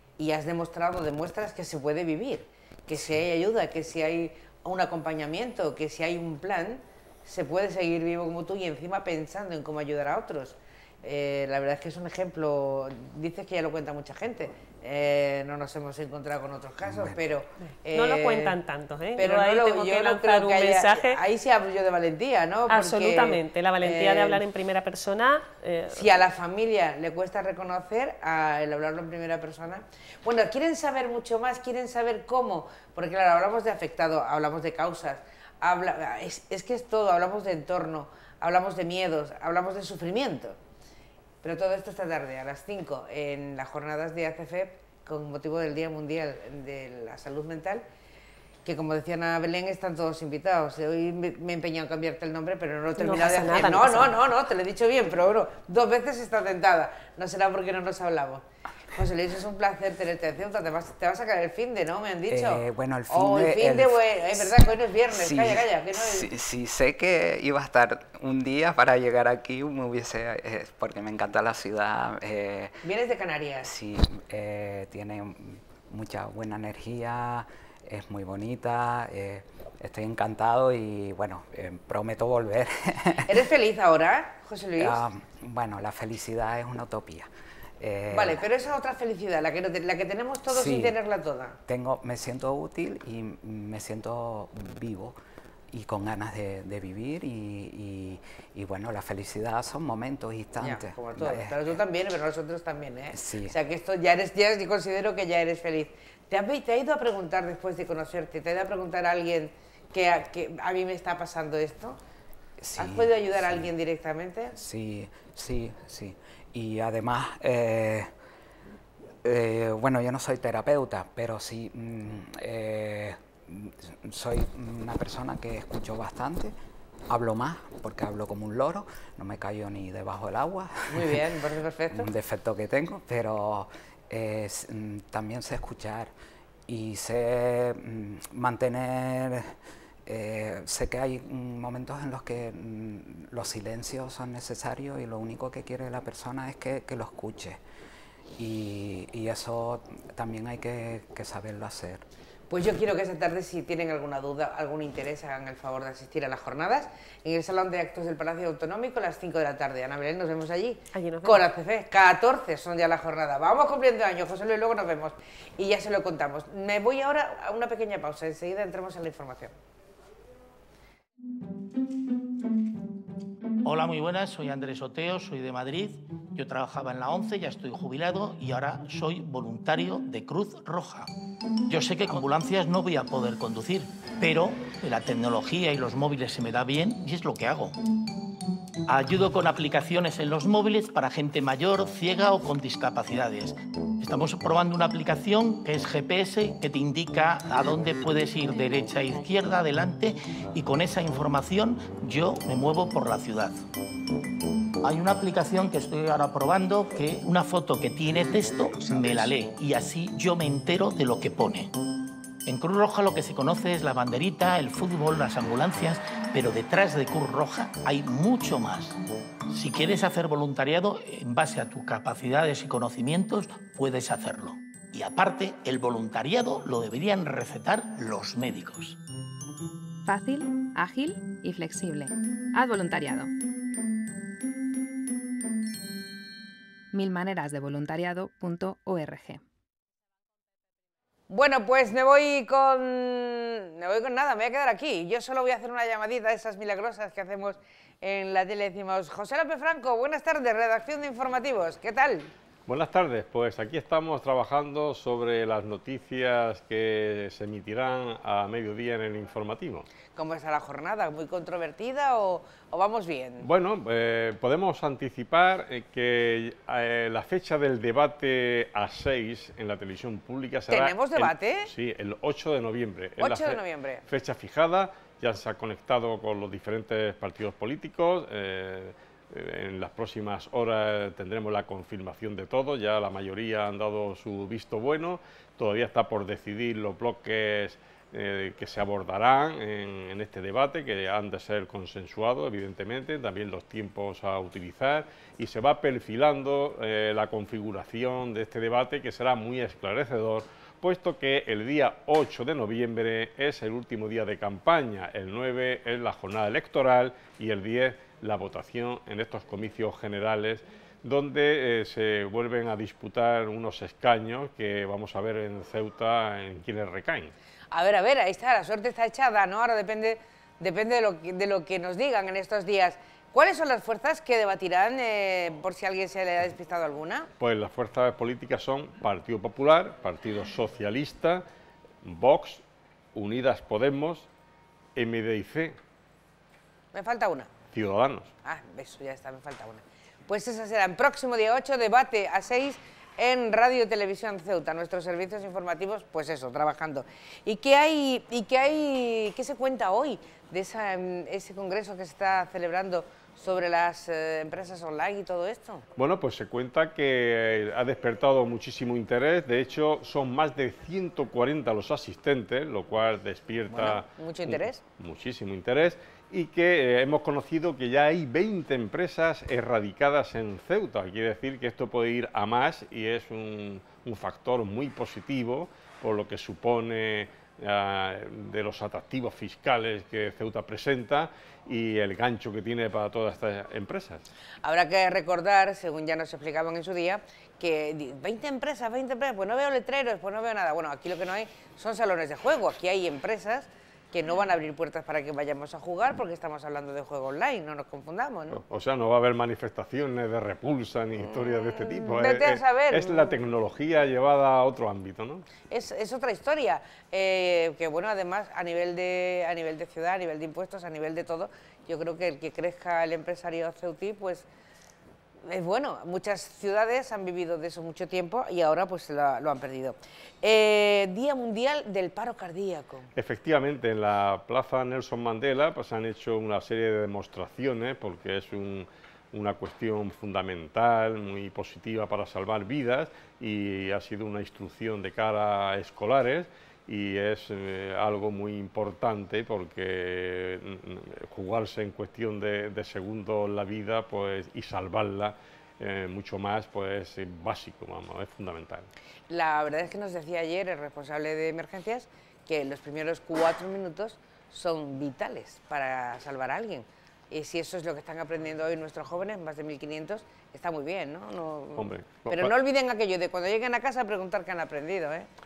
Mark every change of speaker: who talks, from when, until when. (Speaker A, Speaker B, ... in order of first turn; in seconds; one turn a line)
Speaker A: 0.2-18.6
Speaker B: 16.8-17.3
Speaker C: 17.6-21.2
Speaker A: 19.2-24.4
Speaker C: 22.7-26.1
Speaker A: 25.9-40.6
Speaker A: 41.4-47.9
Speaker A: 48.6-66.3
Speaker C: 53.0-54.2
Speaker B: 62.3-64.6
Speaker B: 65.1-72.8
Speaker A: 72.8-73.7
Speaker B: 73.6-83.4
Speaker A: 83.3-85.0
Speaker B: 84.8-88.5
Speaker A: 88.1-91.6
Speaker B: 90.5-91.0
Speaker B: 91.7-95.2
Speaker B: 95.7-101.8
Speaker A: 100.6-112.0
Speaker B: 103.1-103.6
Speaker B: 112.6-113.7
Speaker A: 112.8-114.5
Speaker B: 114.5-118.1
Speaker B: 119.2-126.6
Speaker B: 127.1-131.2
Speaker A: 130.9-132.1
Speaker B: 131.9-136.1
Speaker B: 136.7-147.6
Speaker B: 148.4-152.1
Speaker A: 152.5-169.6
Speaker C: 160.9-161.4
Speaker D: 173.7-181.1
Speaker D: 181.7-187.8
Speaker D: 188.9-203.7
Speaker D: 204.8-211.7
Speaker D: 212.5-219.0
Speaker D: 219.5-229.0
Speaker E: 230.1-233.3
Speaker E: 236.9-239.4
Speaker A: 241.3-252.3
Speaker F: 252.7-259.9
Speaker A: 260.2-263.5
Speaker F: 263.4-317.3
Speaker A: 270.7-271.7
Speaker A: 273.2-274.0
Speaker A: 317.7-327.3
Speaker F: 327.4-331.4
Speaker F: 332.1-332.6
Speaker F: 333.1-334.3
Speaker F: 335.0-335.8
Speaker A: 336.9-337.5
Speaker F: 337.7-338.3
Speaker A: 338.4-355.9
Speaker F: 356.0-384.3
Speaker A: 363.7-364.8
Speaker A: 384.6-398.6
Speaker F: 398.5-405.5
Speaker A: 401.2-403.3
Speaker A: 405.7-414.5
Speaker A: 415.5-423.1
Speaker F: 423.2-448.9
Speaker A: 449.3-465.3
Speaker F: 461.8-462.5